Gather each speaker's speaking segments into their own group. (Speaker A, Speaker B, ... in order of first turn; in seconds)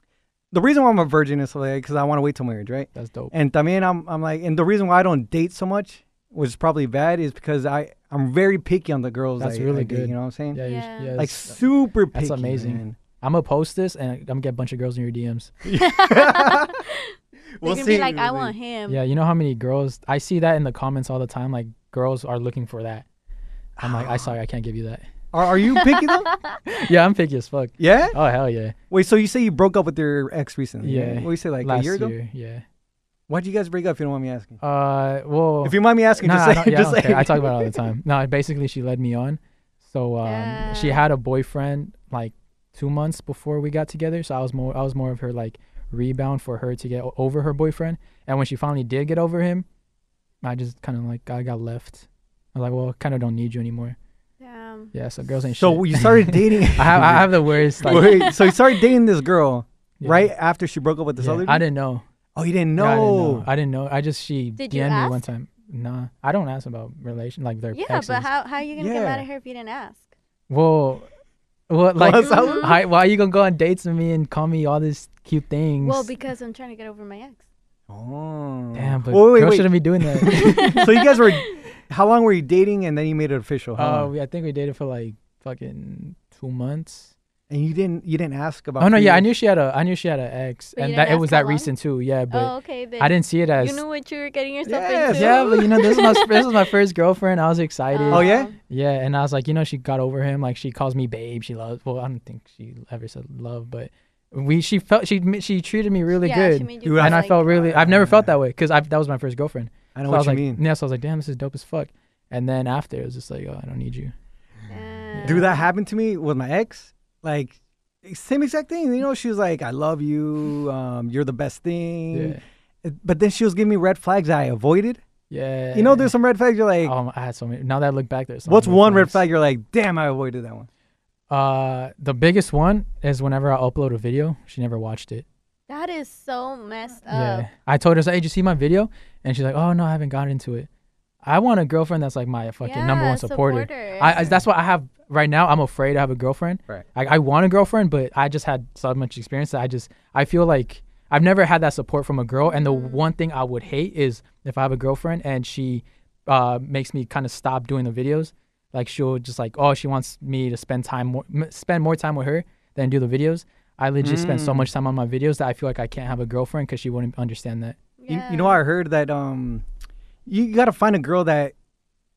Speaker A: 0.5-10.6, 11.2-13.0, 15.6-16.8, 17.6-18.5, 23.8-24.3, 25.3-26.3, 27.8-28.1, 28.9-32.1, 33.3-34.6, 35.6-37.8, 55.5-61.6, 62.4-63.5, 68.8-69.2, 72.0-72.7, 77.9-84.1, 87.5-89.3, 94.7-95.6, 98.1-98.5, 106.8-108.3, 109.9-110.6, 115.2-125.0, 125.7-126.9, 128.4-130.7, 164.0-164.7, 168.1-169.6, 170.2-171.5
Speaker B: 2.9-3.3, 9.4-15.5, 18.9-23.0, 23.8-25.1, 26.6-28.8, 30.8-32.6, 34.6-49.6, 50.4-54.0, 54.9-58.3, 60.0-60.3, 61.2-62.0, 62.8-68.3, 70.5-71.1, 71.7-76.1, 78.7-80.9, 83.8-87.1, 88.8-93.8, 95.1-114.1, 115.1-115.5, 122.1-122.4, 125.3-126.1, 126.8-129.2, 131.3-135.2, 137.1-140.7, 141.2-167.8
Speaker C: 10.6-11.2, 15.7-19.0, 25.7-26.6, 40.2-41.0, 54.4-54.9, 57.8-58.8, 64.6-65.2, 67.7-70.1, 72.2-72.8, 75.8-77.4, 80.2-81.6, 90.8-91.7, 92.3-96.7, 97.9-98.5, 106.2-107.5, 114.7-115.7, 135.7-137.5, 142.6-144.3, 152.4-153.0, 168.0-168.6